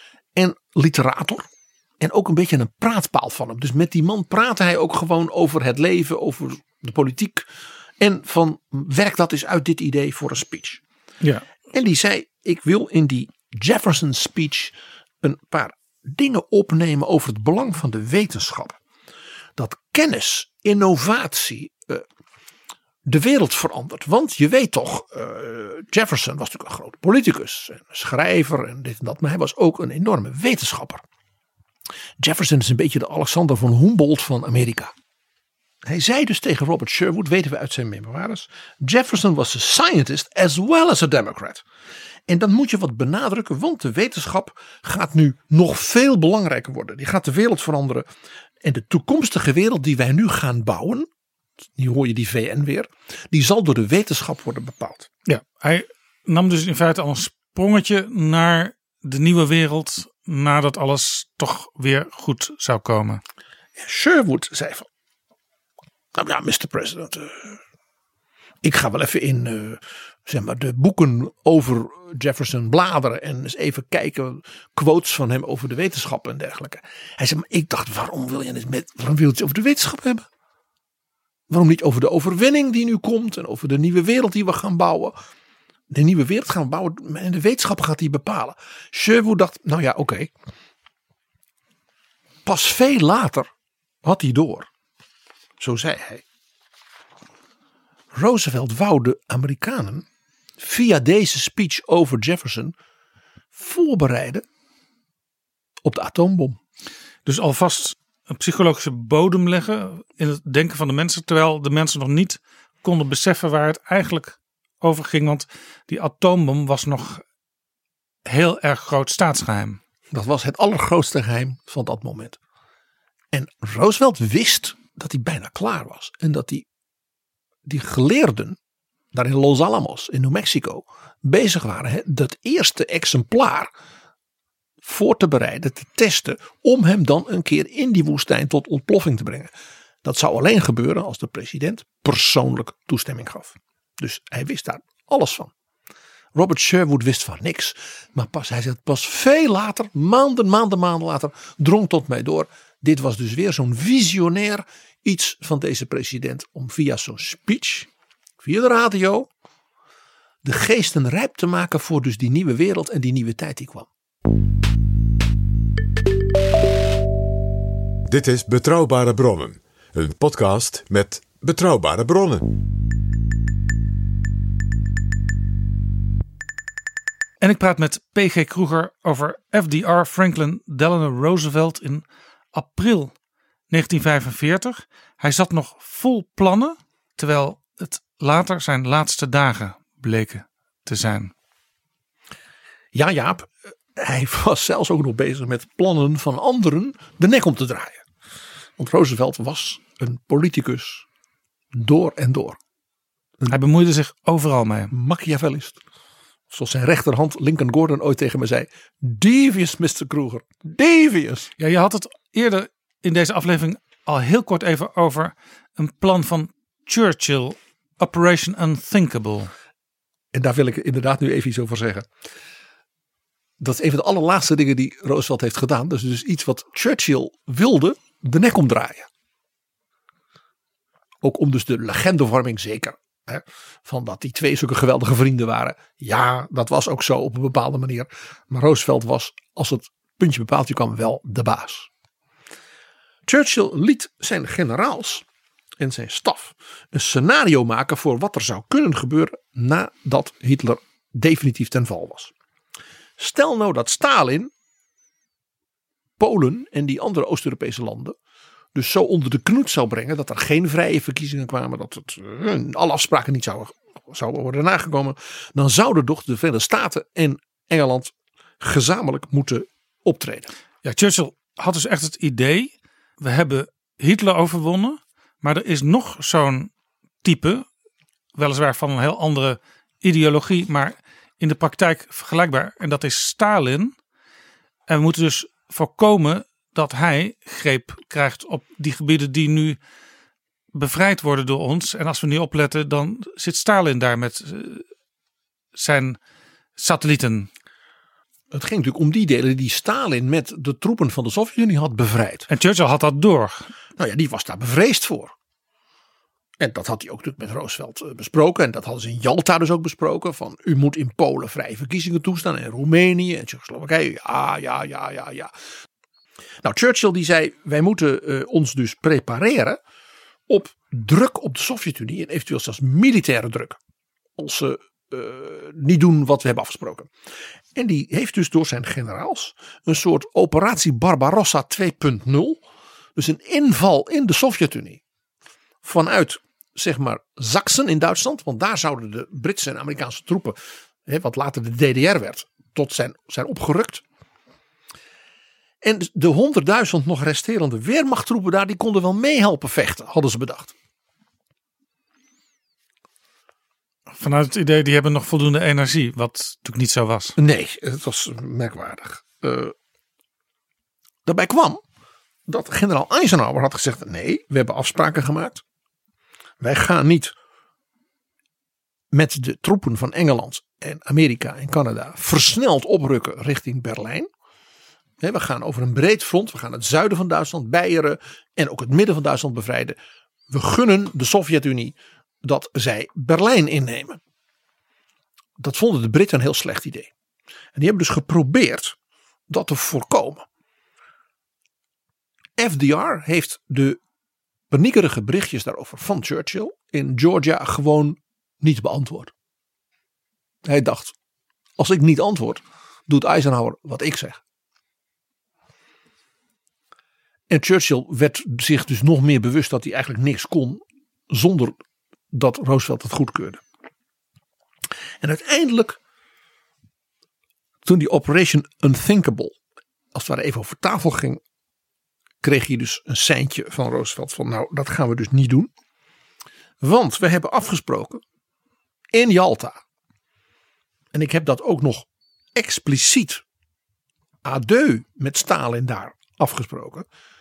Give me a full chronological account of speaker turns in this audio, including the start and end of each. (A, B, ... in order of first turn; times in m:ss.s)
0:00.4-0:01.4 A
0:02.0-0:07.4 A
0:08.0-0:10.8 A
0:11.2-0:11.4 B
0:11.7-0:18.8 A
0:19.6-0:22.0 A
0:23.0-0:31.0 A
0:32.2-0:34.9 A
0:35.8-0:41.6 A
0:42.3-0:48.1 A
0:48.6-0:51.1 A
0:51.8-0:55.1 A
0:55.2-1:03.2 B
1:03.8-1:04.9 A
1:06.1-1:07.6 A
1:08.6-1:20.2 A
1:21.5-1:25.2 A
1:25.9-1:30.3 A
1:32.4-1:33.5 A
1:34.0-1:34.7 A
1:35.6-1:36.2 A
1:38.1-1:40.0 A
1:40.6-1:42.7 A
1:43.5-1:44.4 A
1:45.8-1:46.6 A
1:47.2-1:57.2 B
1:58.2-1:59.8 B
2:00.1-2:02.4 A
2:03.3-2:06.6 A
2:07.6-2:08.6 A
2:09.1-2:13.7 A
2:14.8-2:19.5 A
2:20.0-2:25.5 A
2:26.3-2:37.9 A
2:38.4-2:39.3 A
2:40.4-2:43.9 A
2:48.1-2:52.5 C
2:57.4-3:03.1 B
3:03.7-3:11.3 B
3:12.9-3:18.0 A
3:18.8-3:21.0 A
3:21.7-3:22.6 A
3:23.5-3:24.9 B
3:24.9-3:25.8 A
3:26.5-3:31.5 A
3:31.6-3:39.5 B
3:40.3-3:42.1 A
3:43.6-3:49.1 A
3:51.2-4:01.9 A
4:03.3-4:05.2 A
4:05.8-4:12.3 A
4:13.2-4:14.5 A
4:16.2-4:18.2 A
4:18.7-4:30.5 A
4:30.8-4:36.7 B
4:37.2-4:37.6 B
4:38.3-4:44.0 B
4:44.9-4:49.8 B
4:50.7-4:54.8 B
4:55.7-4:56.2 B
4:56.8-4:57.5 B
4:58.5-5:02.5 A
5:02.5-5:03.7 B
5:04.0-5:05.3 A
5:06.6-5:15.5 A
5:16.6-5:19.8 A
5:20.5-5:23.8 A
5:24.4-5:27.1 A
5:27.7-5:32.6 A
5:33.2-5:35.0 A
5:35.8-5:44.0 A
5:45.8-5:50.7 A
5:54.1-5:57.3 B
5:57.4-5:59.7 A
6:01.2-6:01.8 A
6:02.5-6:05.6 A
6:06.6-6:07.3 A
6:09.1-6:14.3 A
6:15.2-6:20.0 A
6:20.5-6:24.2 A
6:25.6-6:27.1 A
6:27.8-6:29.0 A
6:29.5-6:30.4 A
6:32.6-6:34.0 A
6:34.7-6:39.3 A
6:40.6-6:41.1 A
6:41.8-6:44.4 A
6:47.5-6:51.8 A
6:52.3-6:53.6 A
6:55.2-6:56.0 A
6:57.8-6:59.6 A
7:00.1-7:01.4 A
7:02.4-7:05.7 A
7:06.8-7:08.2 A
7:09.1-7:09.8 A
7:11.1-7:13.4 A
7:14.4-7:17.0 A